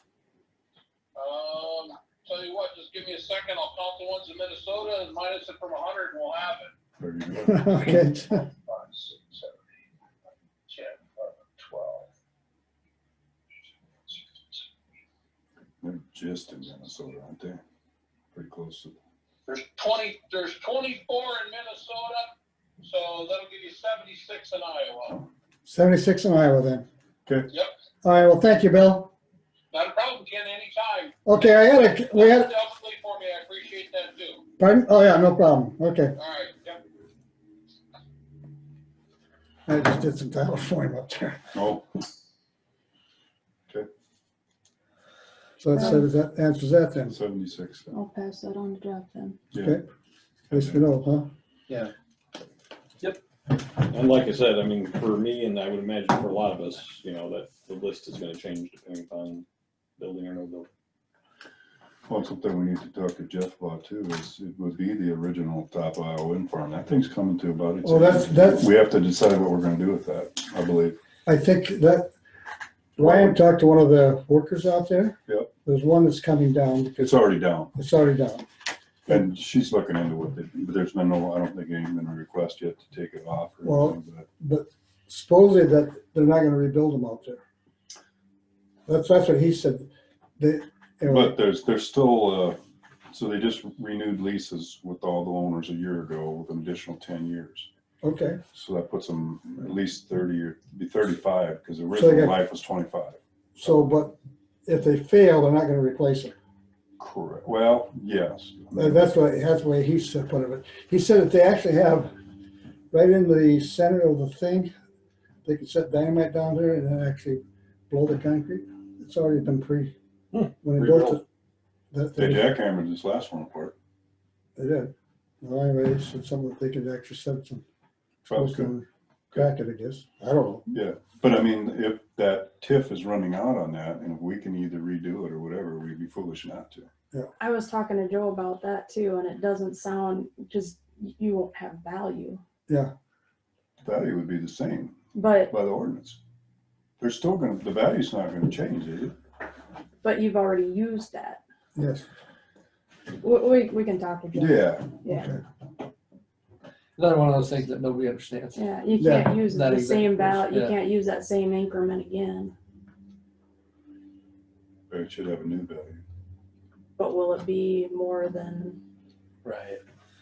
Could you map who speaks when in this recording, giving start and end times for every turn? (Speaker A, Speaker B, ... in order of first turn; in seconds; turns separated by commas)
Speaker A: 1.1-6.7, Speaker B: 7.0-7.7, Speaker C: 7.3-8.4, Speaker A: 7.7-9.6, Speaker A: 10.7-12.1, Speaker A: 14.1-14.6, Speaker B: 15.8-17.6, Speaker B: 18.3-19.0, Speaker A: 19.5-25.1, Speaker C: 25.6-26.9, Speaker C: 28.0-29.1, Speaker A: 29.7-31.1, Speaker C: 31.2-32.5, Speaker A: 32.1-34.4, Speaker C: 34.6-36.1, Speaker A: 36.2-36.8, Speaker C: 39.7-41.5, Speaker B: 41.5-41.8, Speaker C: 45.6-47.2, Speaker D: 45.7-46.1, Speaker B: 47.1-47.9, Speaker D: 47.9-49.4, Speaker B: 49.5-49.8, Speaker C: 49.5-49.9, Speaker B: 50.5-50.8, Speaker C: 50.5-51.3, Speaker E: 51.7-51.9, Speaker F: 53.8-59.4, Speaker F: 60.0-60.7, Speaker B: 62.1-71.0, Speaker C: 67.8-68.7, Speaker C: 71.2-72.1, Speaker C: 73.0-78.5, Speaker B: 73.0-73.4, Speaker B: 77.0-77.7, Speaker B: 79.1-84.3, Speaker C: 83.6-87.4, Speaker C: 88.9-91.4, Speaker B: 91.1-92.6, Speaker B: 93.1-97.7, Speaker C: 98.0-98.4, Speaker B: 98.5-103.2, Speaker C: 101.9-102.4, Speaker C: 103.5-106.3, Speaker B: 107.0-109.1, Speaker C: 108.7-112.1, Speaker C: 112.9-114.7, Speaker C: 115.4-119.9, Speaker F: 120.3-121.2, Speaker C: 120.6-121.2, Speaker C: 121.9-122.6, Speaker B: 122.2-123.7, Speaker C: 124.6-127.6, Speaker B: 128.3-128.7, Speaker C: 128.3-130.7, Speaker B: 130.7-136.9, Speaker D: 137.4-142.4, Speaker B: 143.8-144.9, Speaker D: 145.1-145.5, Speaker B: 145.5-146.2, Speaker B: 147.0-149.1, Speaker D: 150.0-151.4, Speaker C: 151.8-152.1, Speaker D: 153.2-155.3, Speaker B: 154.3-154.9, Speaker C: 155.1-155.4, Speaker E: 157.0-158.6, Speaker D: 158.5-162.5, Speaker C: 159.0-159.3, Speaker E: 159.2-160.7, Speaker B: 164.9-166.0, Speaker D: 167.0-168.8, Speaker E: 169.4-169.8